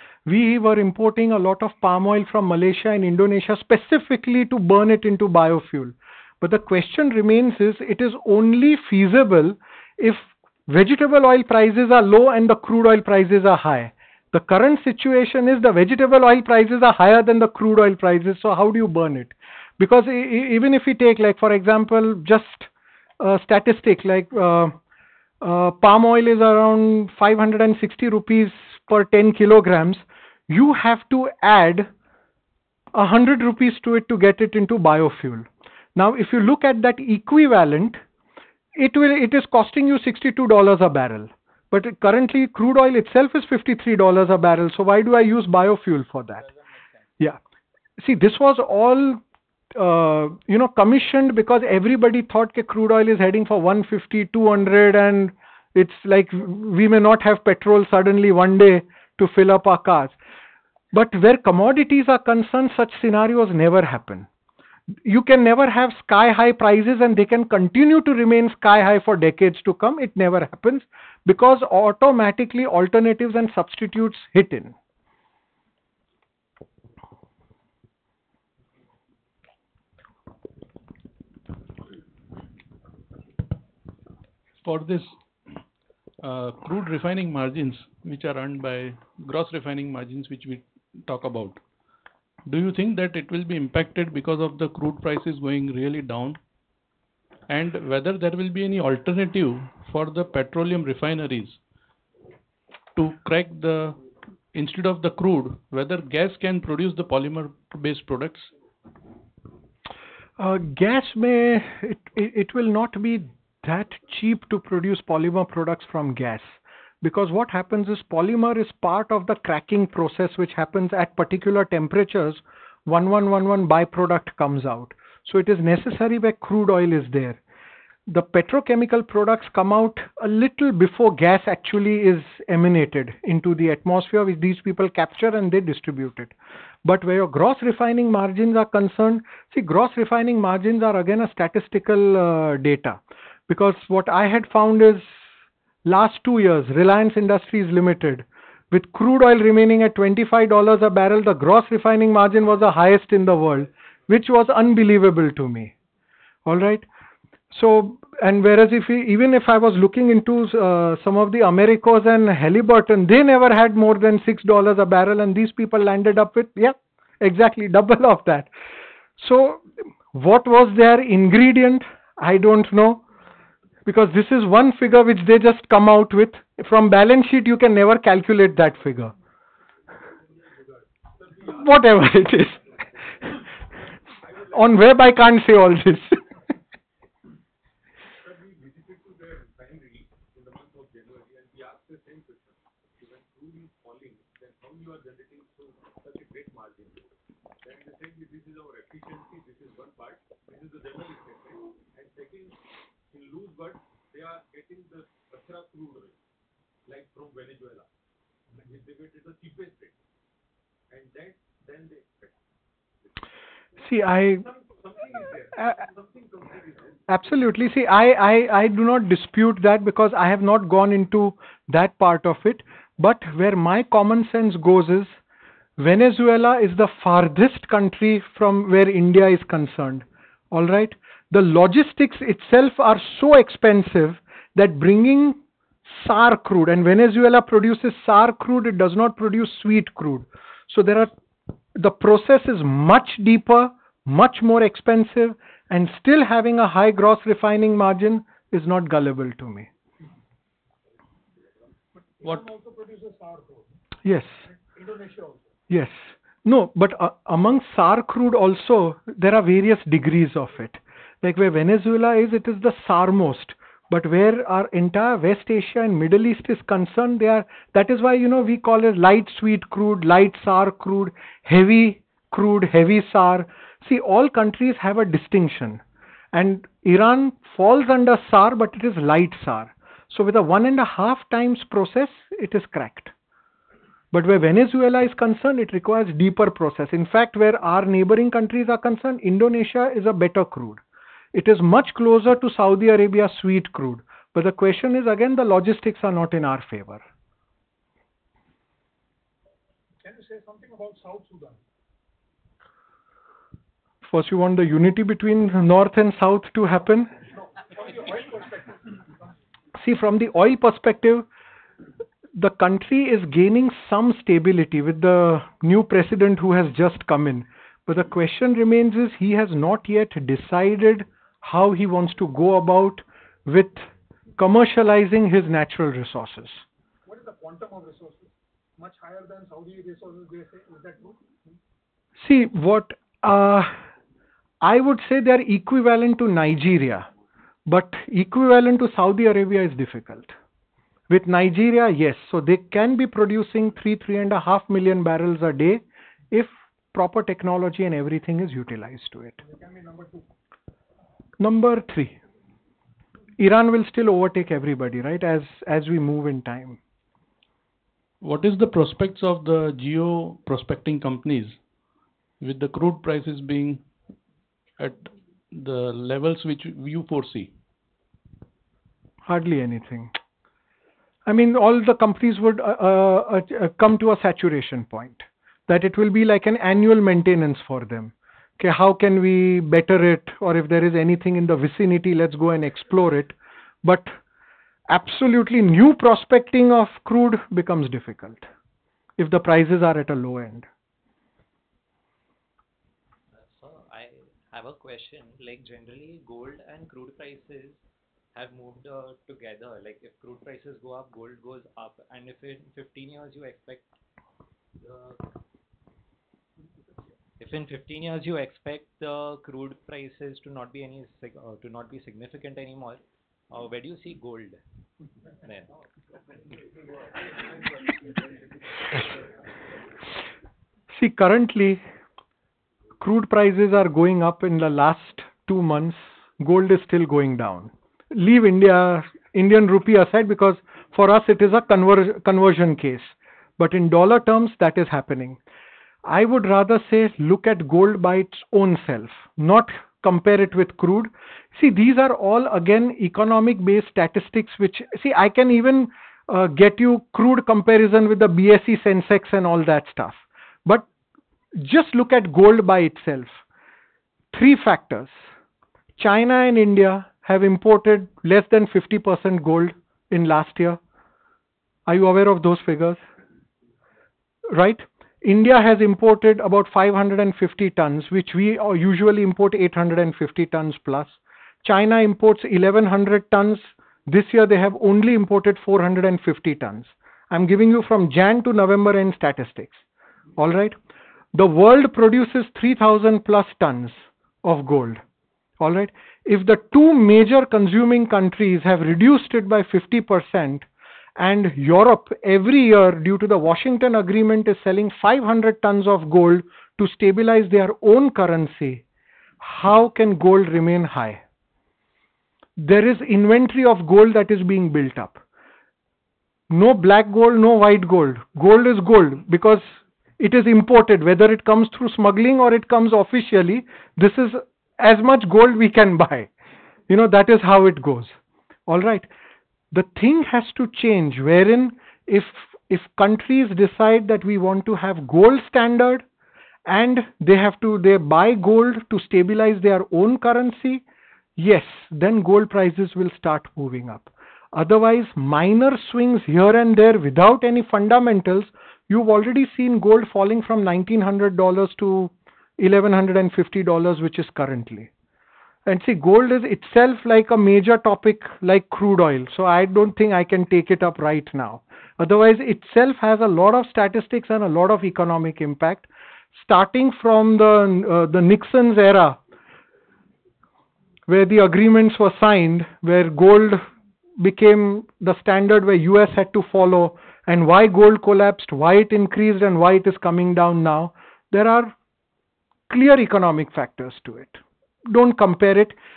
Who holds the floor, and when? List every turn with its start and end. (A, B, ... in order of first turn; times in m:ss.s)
0:00.3-0:22.7 A
0:23.2-0:24.8 A
0:25.4-0:31.9 A
0:32.9-0:38.0 A
0:38.8-0:46.4 A
0:46.4-0:46.9 B
0:48.0-0:49.2 A
0:49.8-1:00.2 A
1:00.9-1:04.3 A
1:05.0-1:14.8 A
1:24.6-1:25.2 C
1:26.2-1:31.6 C
1:32.5-1:36.4 C
1:37.5-1:41.6 C
1:43.0-1:44.0 C
1:44.5-1:48.5 C
1:50.4-2:07.4 A
2:08.1-2:16.3 A
2:16.8-2:25.2 A
2:25.9-2:35.7 A
2:36.5-2:36.9 A
2:37.5-2:48.5 A
2:49.2-2:53.0 A
2:53.9-2:59.1 A
3:00.2-3:05.0 D
3:01.5-3:02.6 A
3:04.5-3:06.3 A
3:08.1-3:17.1 D
3:17.6-3:26.2 D
3:26.9-3:27.9 D
3:28.5-3:30.0 D
3:30.9-3:32.4 D
3:33.8-3:34.4 A
3:34.3-3:37.0 D
3:37.1-3:45.2 A
3:45.8-4:01.1 A
4:01.8-4:09.7 A
4:12.2-4:13.7 E
4:14.0-4:14.4 A
4:14.5-4:15.5 E
4:15.7-4:35.8 A
4:36.3-4:43.1 A
4:44.1-4:50.8 A
4:51.3-4:57.0 A
5:00.0-5:01.6 E
5:04.1-5:07.1 A
5:07.4-5:09.1 E
5:09.8-5:11.3 A
5:12.4-5:23.9 A
5:24.4-5:26.6 A
5:27.1-5:31.3 E
5:32.2-5:33.8 A
5:34.6-5:37.1 A
5:37.7-5:40.4 A
5:41.1-5:49.4 A
5:49.4-5:50.2 E
5:51.4-5:52.2 A
5:53.4-5:56.8 A
5:58.2-6:01.6 C
6:02.4-6:03.9 C
6:04.8-6:07.5 C
6:09.3-6:10.1 A
6:11.3-6:24.2 A
6:24.9-6:28.5 A
6:29.2-6:30.7 A
6:33.3-6:43.9 B
6:44.8-6:45.2 B
6:47.4-6:54.6 B
6:55.4-6:55.8 B
7:00.9-7:01.8 A
7:03.0-7:15.4 A
7:16.0-7:30.9 A
7:31.6-7:33.4 A
7:34.3-7:35.2 A
7:36.0-7:40.8 A
7:41.9-7:43.0 A
7:44.5-7:59.8 A
8:00.4-8:00.8 A
8:01.3-8:05.0 A
8:05.6-8:18.8 A
8:19.4-8:21.2 A
8:22.6-8:25.2 A
8:26.5-8:36.3 A
8:36.9-8:38.1 A
8:38.7-8:39.1 A
8:39.7-8:46.0 A
8:46.7-8:50.8 A
8:51.4-9:04.9 A
9:05.7-9:19.2 A
9:21.1-9:23.6 A
9:24.2-9:31.8 A
9:32.7-9:35.8 A